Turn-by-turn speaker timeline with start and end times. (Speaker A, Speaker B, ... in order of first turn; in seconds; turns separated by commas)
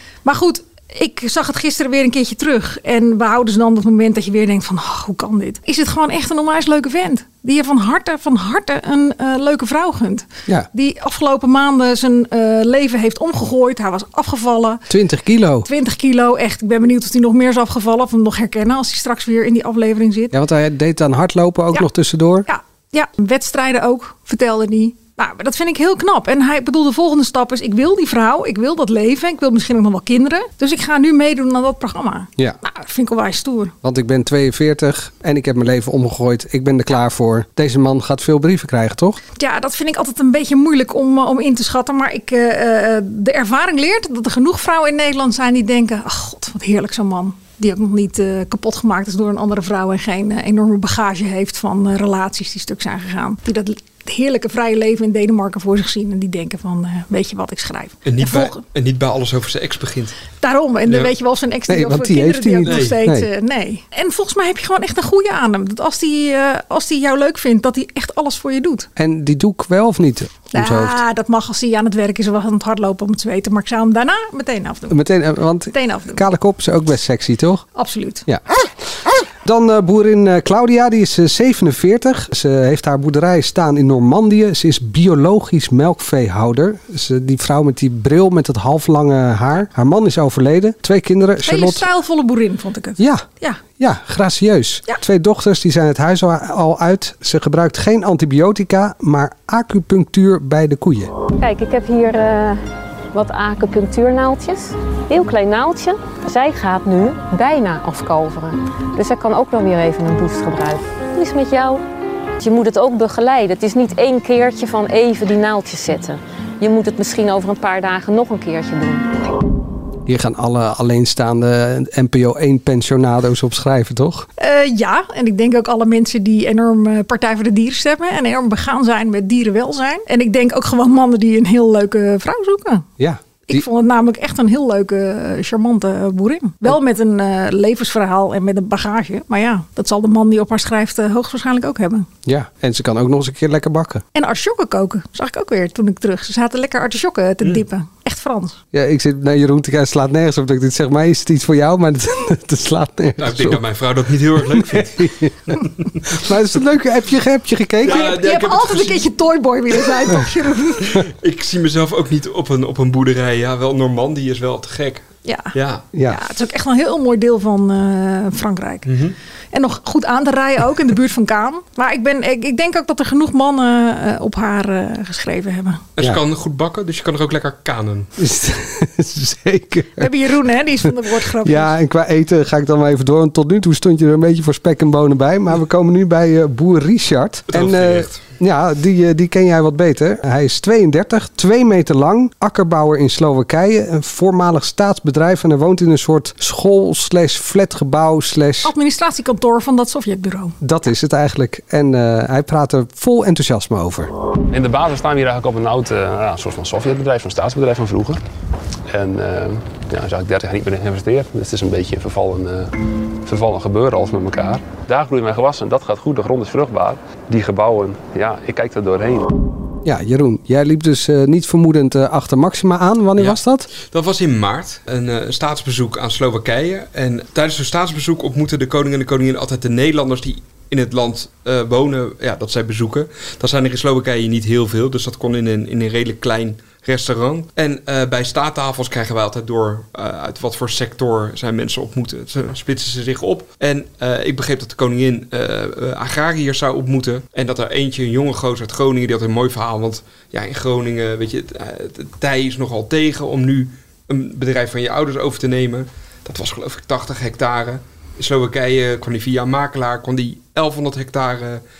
Speaker A: 0.2-14.8, Speaker B: 14.9-15.7, Speaker A: 15.6-20.3, Speaker B: 20.3-22.5, Speaker A: 22.5-33.7, Speaker B: 33.8-39.2, Speaker A: 39.4-58.6, Speaker C: 58.0-60.2, Speaker A: 60.4-68.9, Speaker C: 60.9-61.1, Speaker B: 61.7-63.3, Speaker C: 62.6-63.0, Speaker B: 69.0-71.0, Speaker A: 70.5-75.0, Speaker B: 74.9-77.7, Speaker A: 75.7-76.2, Speaker A: 77.8-78.2, Speaker B: 79.1-91.9, Speaker A: 91.4-93.6, Speaker B: 93.0-93.2, Speaker B: 93.8-101.1, Speaker D: 101.4-111.8, Speaker D: 112.4-119.2, Speaker B: 120.1-124.3, Speaker A: 124.4-132.9, Speaker B: 133.0-133.7, Speaker A: 133.5-142.1, Speaker B: 142.3-144.1, Speaker A: 144.2-148.6, Speaker B: 148.7-153.6, Speaker C: 153.2-155.1, Speaker B: 154.4-158.2, Speaker C: 155.8-156.2, Speaker C: 157.8-159.1, Speaker A: 157.8-160.9, Speaker C: 159.7-160.2, Speaker C: 160.8-165.8, Speaker A: 165.2-165.5, Speaker B: 165.9-166.2, Speaker A: 166.1-168.9, Speaker C: 168.9-169.2, Speaker A: 169.5-175.8, Speaker C: 176.0-178.1, Speaker B: 178.2-180.2, Speaker A: 180.0-181.8, Speaker B: 181.4-198.7, Speaker C: 187.5-188.2, Speaker A: 198.6-200.6, Speaker B: 200.6-204.1, Speaker E: 204.5-208.2, Speaker E: 208.9-219.3, Speaker B: 219.8-223.7, Speaker C: 223.2-261.6